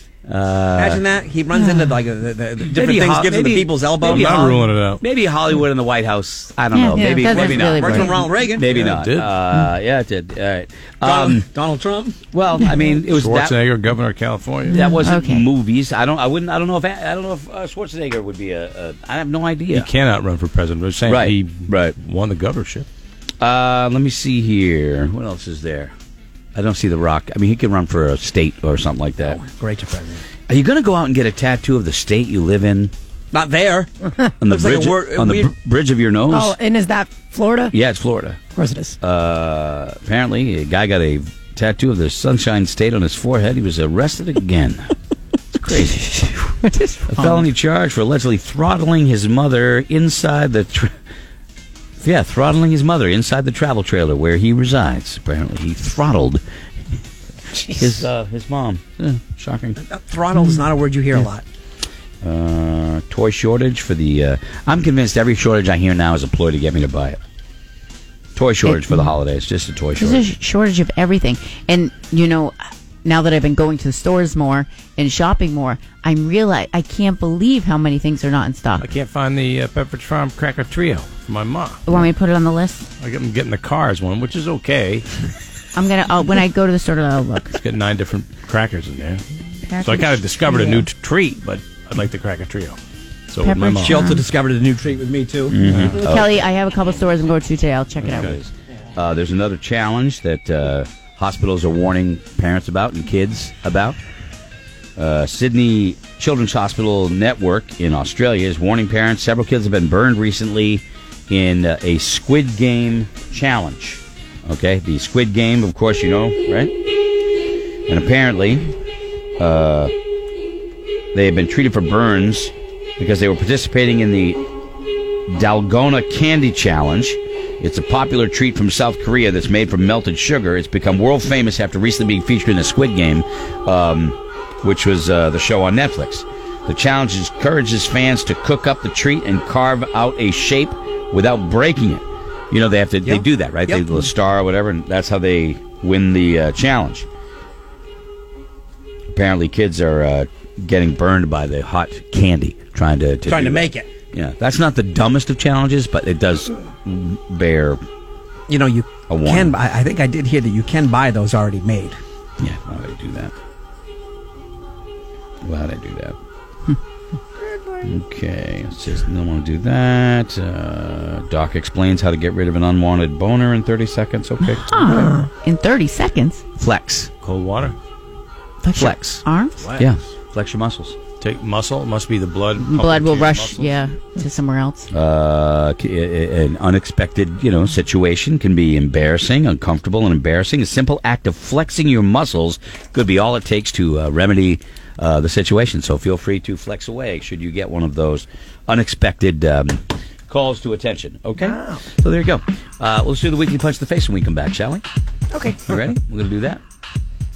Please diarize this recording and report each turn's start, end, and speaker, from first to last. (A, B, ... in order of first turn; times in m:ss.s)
0:00.3-0:01.0 A
0:00.7-0:04.7 B
0:01.6-0:01.9 C
0:02.7-0:04.4 A
0:04.0-0:05.0 D
0:05.0-0:11.5 A
0:06.7-0:08.2 C
0:07.0-0:07.2 E
0:07.3-0:08.7 B
0:08.6-0:09.3 D
0:11.0-0:12.2 B
0:12.3-0:13.6 A
0:13.0-0:14.8 D
0:14.7-0:15.5 C
0:14.7-0:19.9 A
0:19.7-0:22.9 D
0:21.1-0:22.0 A
0:23.4-0:25.9 A
0:26.5-0:29.4 A
0:29.2-0:30.2 B
0:30.5-0:32.9 A
0:33.3-0:35.5 B
0:34.4-0:36.6 A
0:36.3-0:37.7 E
0:37.7-0:38.4 A
0:38.5-0:39.0 E
0:39.0-0:44.8 A
0:45.5-0:46.1 A
0:46.0-0:47.4 C
0:47.1-0:50.9 A
0:52.0-0:56.4 A
0:57.6-0:59.8 A
0:59.8-1:01.4 B
1:00.3-1:00.6 C
1:02.2-1:07.2 A
1:08.3-1:10.3 A
1:08.6-1:09.1 C
1:10.0-1:18.9 C
1:18.8-1:22.1 D
1:21.8-1:22.9 C
1:23.0-1:25.3 D
1:25.7-1:27.6 C
1:27.5-1:29.2 D
1:29.7-1:30.8 C
1:29.8-1:32.8 D
1:33.3-1:34.0 D
1:33.4-1:34.2 C
1:33.8-1:35.6 B
1:35.5-1:36.3 A
1:35.6-1:36.0 D
1:35.7-1:38.3 C
1:38.0-1:38.4 D
1:38.1-1:44.0 A
1:45.0-1:56.7 A
1:57.9-1:58.7 A
1:59.4-1:59.9 A
2:01.1-2:04.4 A
2:05.3-2:27.1 A
2:23.0-2:24.0 B
2:29.1-2:37.8 A
2:33.2-2:33.9 B
2:38.5-2:42.0 B
2:39.1-2:39.5 A
2:42.4-2:43.3 A
2:45.4-2:46.2 A
2:47.8-2:54.7 A
2:54.4-2:56.4 C
2:54.9-2:55.3 E
2:56.6-2:57.1 A
2:57.2-2:57.7 D
2:58.6-2:59.7 C
2:58.7-2:59.2 A
2:59.6-2:59.9 D
2:59.8-3:01.0 A
3:01.2-3:03.9 D
3:02.6-3:04.9 C
3:04.9-3:24.8 A
3:21.4-3:21.8 E
3:25.3-3:25.7 E
3:25.7-3:26.6 A